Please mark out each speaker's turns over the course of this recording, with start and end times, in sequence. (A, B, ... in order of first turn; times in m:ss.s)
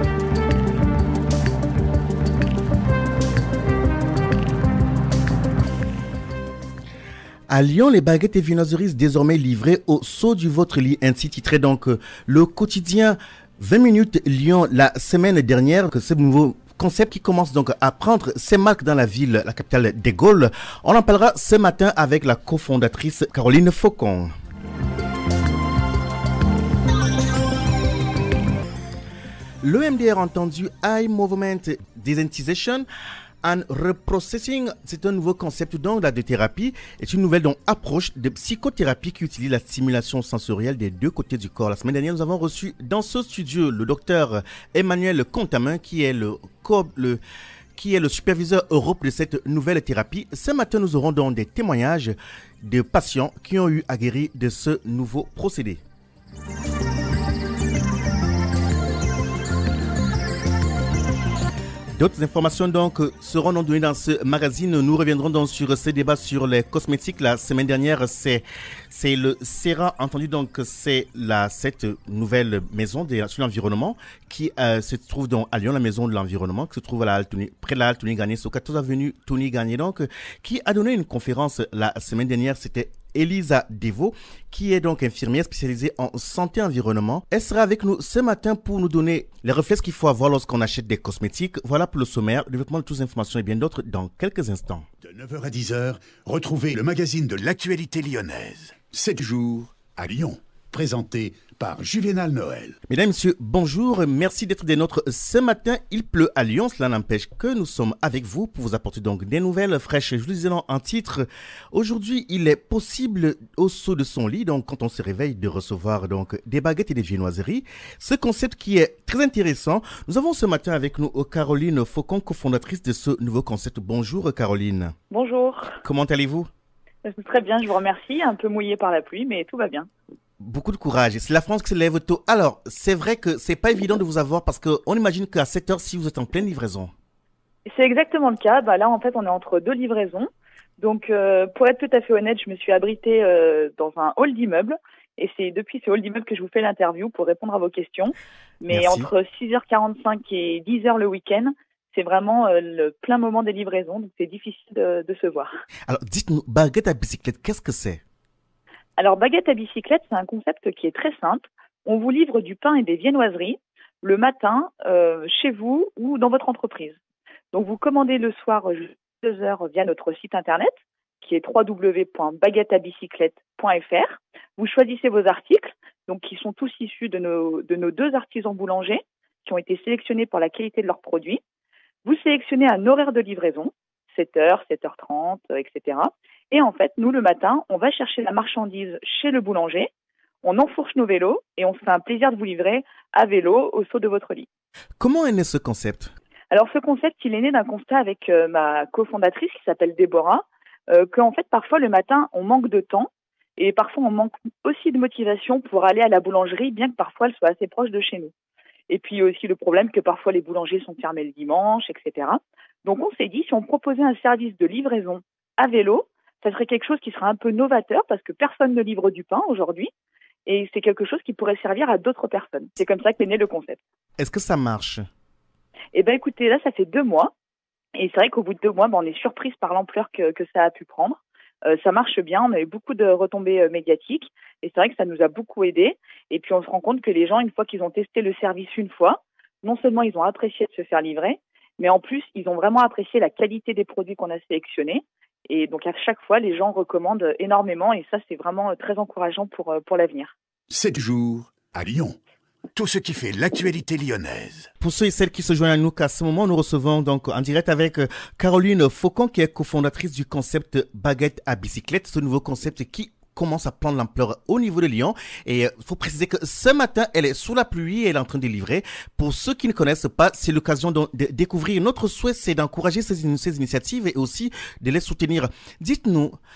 0:07.5-0:24.3 A
0:29.6-0:32.9 A
0:33.4-0:47.2 A
0:47.8-0:55.8 A
1:02.0-1:34.9 A
1:35.0-1:42.8 B
1:42.9-2:05.0 A
2:05.1-2:05.8 C
2:05.8-2:06.5 A
2:07.0-2:09.9 C
2:10.4-2:16.9 A
2:17.7-2:35.6 C
2:28.7-2:29.1 A
2:35.9-2:38.0 A
2:39.0-2:47.0 C
2:47.5-3:01.4 C
3:02.0-3:09.9 C
3:10.4-3:14.5 C
3:15.0-3:16.1 A
3:16.5-3:28.3 C
3:28.9-3:39.9 C
3:40.5-3:43.8 C
3:44.2-3:45.1 A
3:45.9-3:47.3 C
3:48.0-4:10.3 C
4:10.7-4:12.2 B
4:12.7-4:14.7 B
4:14.8-4:36.4 A